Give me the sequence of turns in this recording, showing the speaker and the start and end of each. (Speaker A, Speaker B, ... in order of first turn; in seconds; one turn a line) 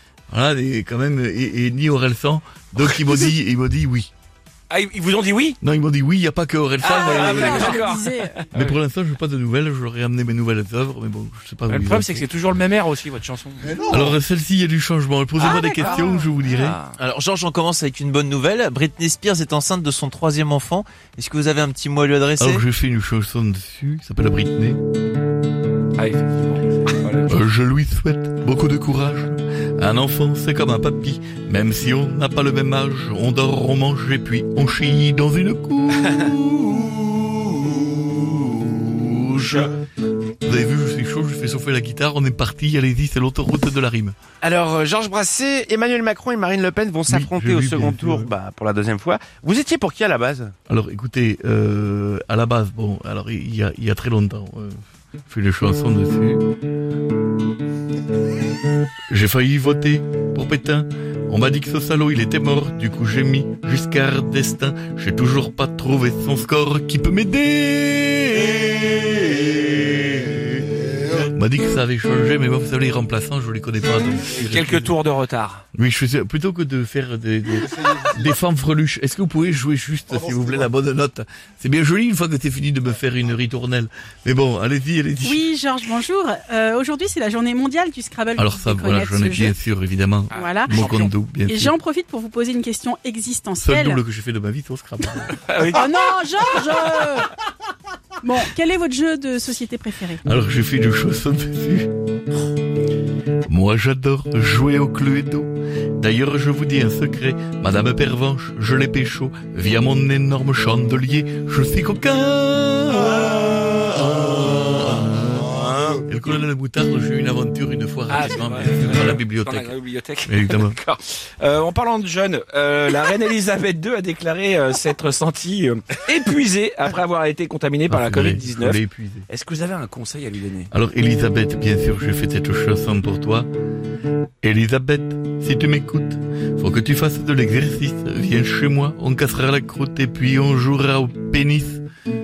Speaker A: 0.3-4.1
Speaker B: 2.9-3.2
Speaker B: 4.7-5.6
Speaker A: 5.6-8.0
Speaker B: 6.8-8.8
Speaker C: 6.9-8.4
Speaker A: 8.5-12.3
Speaker B: 11.7-14.0
Speaker A: 13.8-16.8
Speaker B: 15.4-16.9
Speaker C: 15.4-16.3
Speaker D: 16.9-22.6
Speaker A: 22.4-24.8
Speaker B: 26.0-27.4
Speaker A: 27.2-37.3
Speaker A: 38.6-39.6
Speaker A: 40.4-44.1
Speaker E: 44.4-50.5
Speaker A: 47.1-48.3
Speaker A: 50.7-56.4
Speaker A: 59.1-74.9
Speaker B: 74.3-75.6
Speaker A: 75.7-85.5
Speaker C: 85.2-89.5
Speaker A: 88.3-91.7
Speaker B: 90.3-91.1
Speaker C: 90.3-90.9
Speaker C: 91.4-94.0
Speaker A: 93.6-95.5
Speaker B: 95.4-95.9
Speaker C: 95.7-97.3
Speaker C: 98.2-100.2
Speaker A: 100.2-101.9
Speaker A: 103.5-119.7
Speaker B: 118.1-130.7
Speaker A: 120.2-120.8
Speaker A: 127.9-129.3
Speaker A: 130.7-133.5
Speaker A: 134.4-141.8